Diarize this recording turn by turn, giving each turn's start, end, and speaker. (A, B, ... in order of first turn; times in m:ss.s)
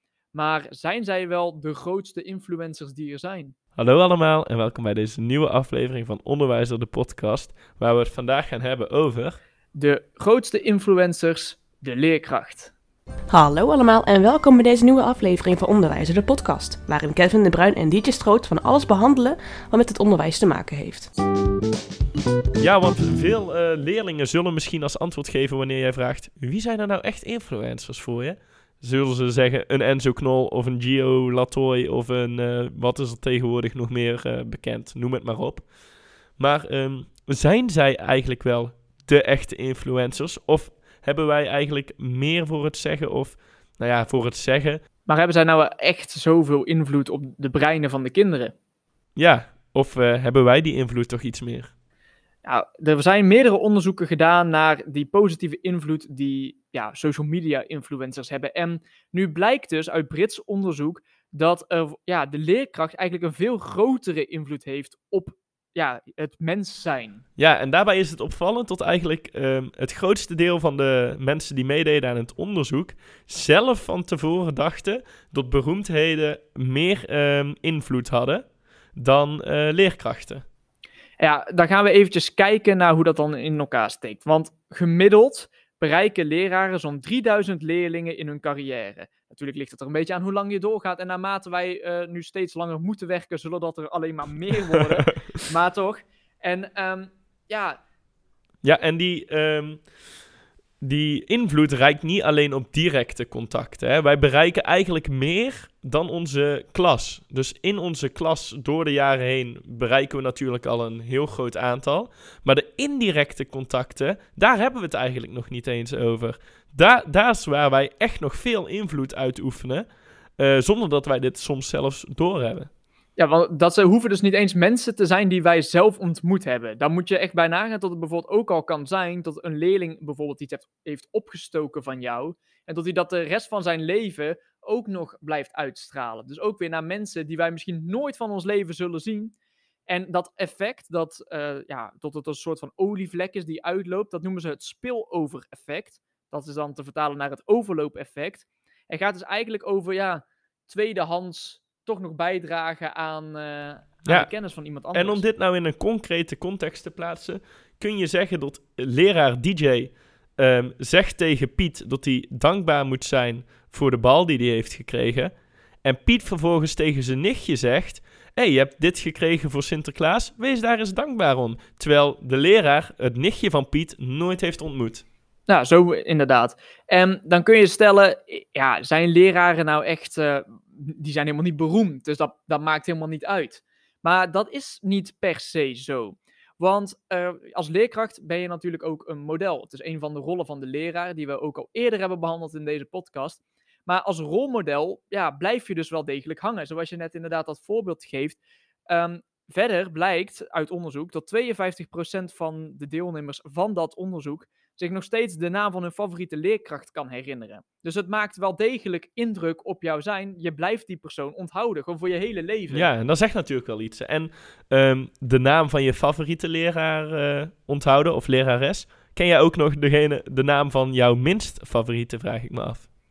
0:00.3-0:03.5 A
0:03.8-0:09.4 B
0:09.7-0:12.7 A
0:13.3-0:21.1 C
0:22.6-0:35.7 B
0:36.4-0:44.8 B
0:45.0-0:48.5 A
0:49.2-0:51.7 B
0:52.4-1:07.2 A
1:07.4-1:18.4 B
1:18.9-1:20.4 B
1:21.2-1:37.8 A
1:38.6-1:39.9 B
1:40.8-1:59.8 B
2:00.4-2:02.7 B
2:03.2-2:19.3 A
2:19.9-2:35.2 A
2:34.0-2:34.3 B
2:34.9-2:45.3 B
2:45.8-2:55.0 B
2:55.5-3:32.9 A
3:32.7-3:42.8 B